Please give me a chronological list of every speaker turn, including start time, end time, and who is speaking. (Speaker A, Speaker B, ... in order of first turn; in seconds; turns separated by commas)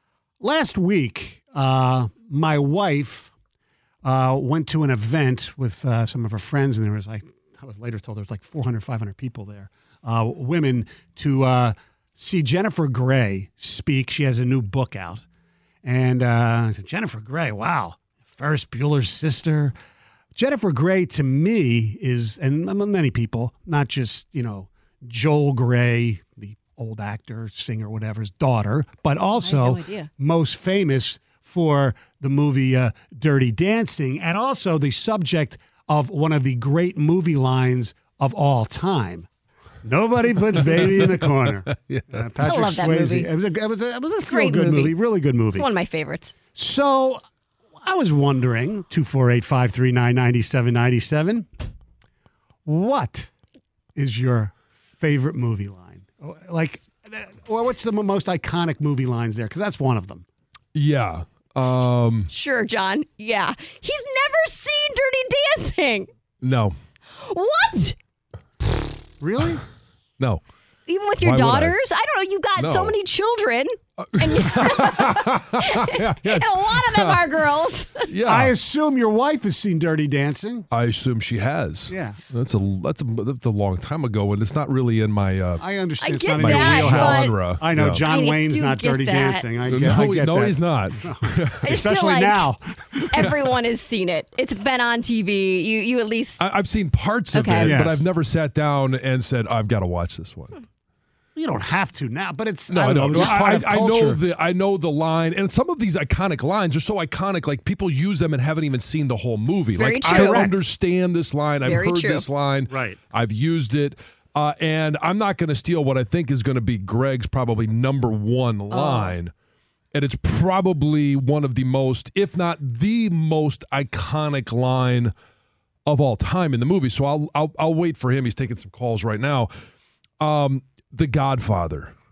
Speaker A: 0.4-3.3, Speaker A: 4.0-15.2, Speaker A: 15.8-19.7, Speaker A: 20.4-39.3, Speaker B: 29.4-30.1, Speaker A: 39.8-45.7, Speaker C: 40.8-42.6, Speaker B: 42.5-43.3, Speaker B: 44.2-44.9, Speaker B: 45.5-46.4, Speaker A: 46.5-47.2, Speaker A: 47.8-51.5, Speaker A: 52.6-53.3, Speaker A: 54.0-60.3, Speaker C: 60.7-62.3, Speaker B: 62.3-66.1, Speaker C: 66.4-66.8, Speaker B: 67.2-68.0, Speaker A: 69.2-69.6, Speaker B: 70.9-78.1, Speaker C: 71.2-71.8, Speaker C: 72.6-73.0, Speaker C: 74.0-77.4, Speaker C: 78.1-78.5, Speaker A: 78.2-80.7, Speaker C: 80.7-88.1, Speaker A: 81.9-82.2, Speaker A: 85.6-93.4, Speaker B: 86.0-87.3, Speaker B: 88.1-89.5, Speaker C: 89.6-91.9, Speaker B: 91.7-92.5, Speaker B: 93.1-96.4, Speaker C: 93.2-93.5, Speaker C: 96.4-100.6, Speaker B: 97.3-97.7, Speaker A: 97.6-98.1, Speaker A: 101.4-104.2, Speaker C: 102.7-119.3, Speaker B: 109.7-110.4, Speaker A: 110.0-110.7, Speaker B: 111.6-112.3, Speaker A: 112.7-113.0, Speaker B: 118.7-119.1, Speaker C: 119.9-125.1, Speaker C: 125.9-129.5, Speaker C: 130.2-131.9